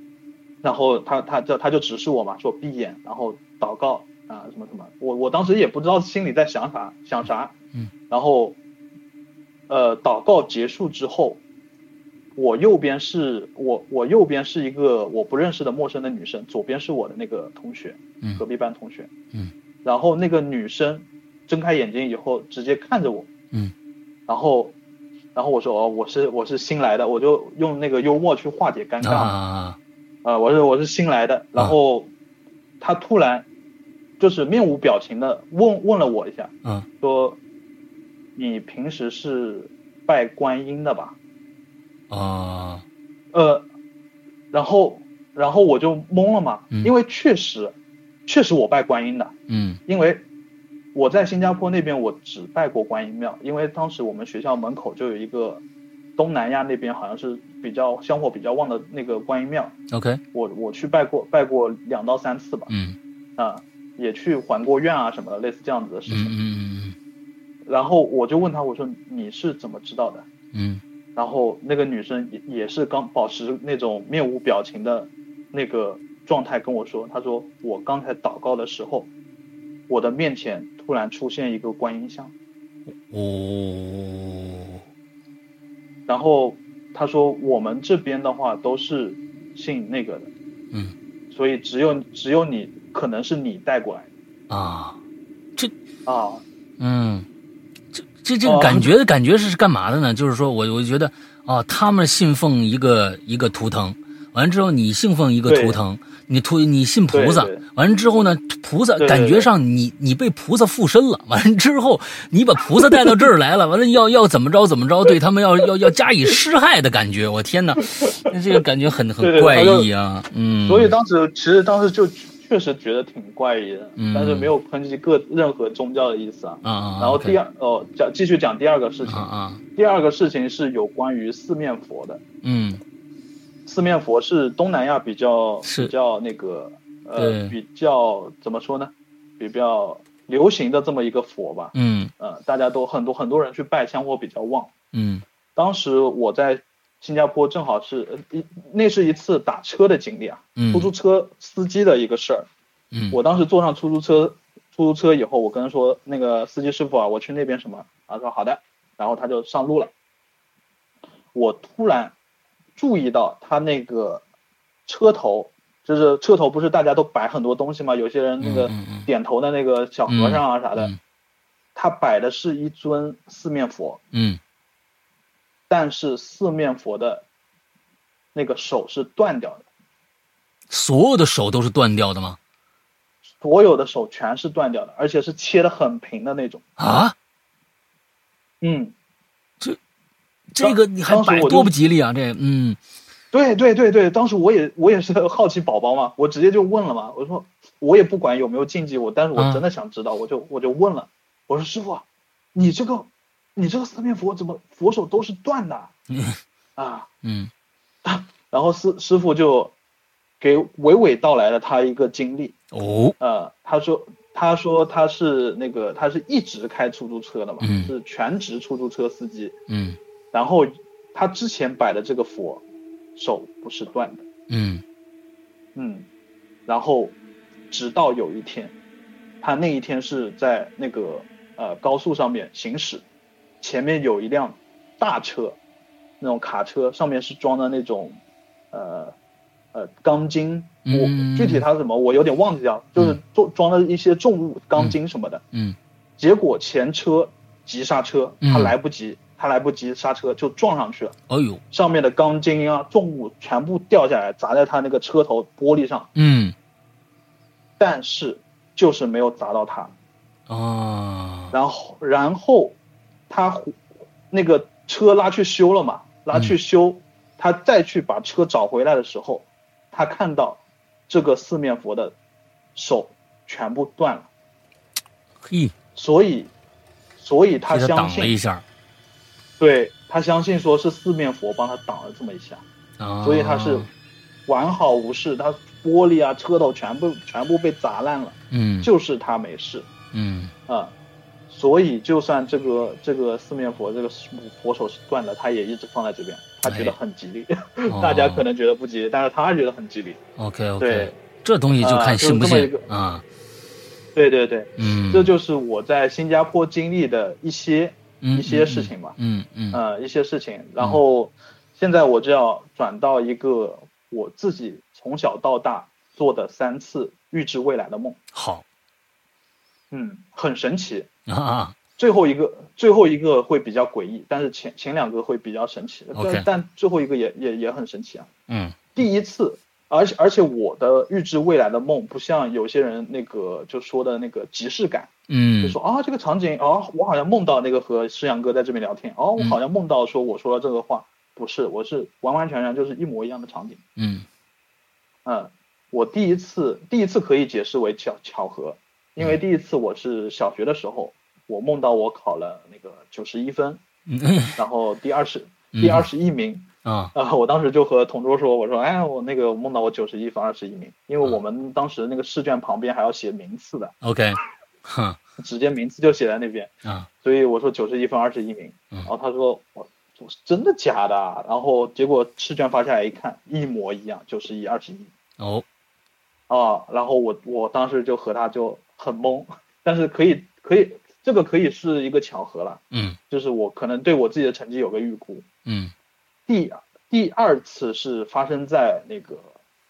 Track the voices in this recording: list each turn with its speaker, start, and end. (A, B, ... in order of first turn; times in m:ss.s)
0:00.6-0:07.5 A
0:08.1-0:08.6 A
0:09.7-0:11.4 A
0:12.4-0:19.1 A
0:19.8-0:23.3 A
0:24.3-0:24.8 A
0:25.4-0:29.3 A
0:29.0-0:29.8 B
0:30.2-0:32.1 A
0:32.8-0:33.5 A
0:34.2-0:37.4 A
0:38.4-0:41.2 A
0:42.1-0:42.8 B
0:43.3-0:43.7 A
0:44.5-0:47.8 A
0:48.3-0:49.3 A
0:49.5-0:49.8 B
0:49.9-0:50.2 A
0:50.9-0:55.6 A
0:56.2-0:59.8 A
0:59.9-1:00.2 B
1:00.3-1:02.7 A
1:02.7-1:03.0 B
1:03.4-1:06.4 A
1:06.1-1:07.0 B
1:07.7-1:10.3 A
1:10.5-1:10.8 B
1:11.2-1:19.1 A
1:19.9-1:22.3 A
1:23.1-1:24.8 B
1:26.1-1:30.3 A
1:31.3-1:34.1 A
1:34.5-1:35.0 B
1:36.1-1:36.4 A
1:36.8-1:37.3 B
1:37.9-2:00.9 B
1:38.4-1:38.9 A
1:45.5-1:45.8 A
1:47.1-1:47.6 A
1:49.0-1:49.5 A
1:52.8-1:53.1 A
1:58.0-1:58.3 A
1:59.2-1:59.9 A
2:00.7-2:12.2 A
2:04.0-2:04.5 B
2:06.6-2:07.4 B
2:09.0-2:09.6 B
2:12.4-2:12.8 B
2:13.7-2:24.7 A
2:15.6-2:15.9 B
2:17.2-2:17.6 B
2:21.7-2:22.1 B
2:24.9-2:25.2 B
2:25.6-2:32.5 A
2:30.6-2:30.9 B
2:32.9-2:33.2 B
2:33.1-2:39.9 A
2:41.3-2:42.1 A
2:42.8-2:44.2 A
2:44.9-2:50.9 A
2:48.4-2:49.1 B
2:50.1-2:51.0 B
2:51.8-2:54.0 A
2:54.1-2:54.4 B
2:55.7-2:57.2 A
2:58.3-2:59.7 A
3:00.7-3:02.4 B
3:03.4-3:07.0 A
3:06.8-3:07.2 B
3:08.6-3:08.9 A
3:10.5-3:12.8 B
3:10.6-3:11.7 A
3:13.3-3:25.9 A
3:19.4-3:19.6 B
3:26.1-3:26.4 B
3:26.8-3:27.1 A
3:27.2-3:27.5 B
3:28.0-3:29.7 A
3:30.4-3:32.6 A
3:32.7-3:33.2 B
3:33.2-3:39.6 A
3:37.6-3:37.9 B
3:39.7-3:40.0 B
3:40.3-3:42.6 A
3:43.2-3:44.2 A
3:44.5-3:44.8 B
3:45.8-3:46.1 A
3:46.7-3:47.2 A
3:47.7-3:48.7 A
3:49.4-3:53.0 A
3:53.6-3:55.6 A
3:56.2-3:58.2 A
3:58.7-3:59.2 A
3:59.7-4:05.4 A
4:00.9-4:01.6 B
4:06.2-4:11.2 A
4:08.4-4:08.8 B
4:11.3-4:11.6 B
4:11.7-4:16.1 A
4:16.2-4:16.6 B
4:17.8-4:19.9 A
4:20.5-4:21.6 B
4:21.5-4:22.8 A
4:23.3-4:23.8 A
4:24.3-4:32.2 A
4:32.8-4:34.3 A
4:35.4-4:35.8 B
4:36.0-4:36.5 A
4:37.2-4:38.4 A
4:37.7-4:38.6 B
4:39.6-4:42.6 A
4:43.0-4:43.9 B
4:43.2-4:43.9 A
4:44.5-4:49.9 A
4:48.5-4:48.9 B
4:50.1-4:50.5 B
4:50.7-4:50.9 A
4:51.5-5:00.2 A
4:56.6-4:57.0 B
4:57.9-4:58.4 B
5:00.4-5:03.2 B
5:00.8-5:01.1 A
5:01.8-5:02.9 A
5:04.2-5:09.2 A
5:04.8-5:05.3 B
5:08.2-5:09.8 B
5:09.7-5:18.2 A
5:18.3-5:18.6 B
5:19.9-5:21.1 A
5:21.3-5:21.8 B
5:22.0-5:28.3 A
5:26.2-5:26.5 B
5:28.5-5:28.9 B
5:29.0-5:35.1 A
5:35.3-5:35.8 B
5:35.6-5:43.8 A
5:44.0-5:44.3 B
5:45.2-5:53.8 A
5:54.1-5:54.6 B
5:54.6-6:03.9 A
5:55.8-5:56.1 B
5:56.8-5:57.1 B
6:04.0-6:05.2 B
6:05.4-6:06.7 A
6:07.2-6:15.1 A
6:15.4-6:15.6 B
6:16.5-6:25.4 A
6:22.9-6:23.2 B
6:25.7-6:25.9 B
6:26.5-6:29.5 A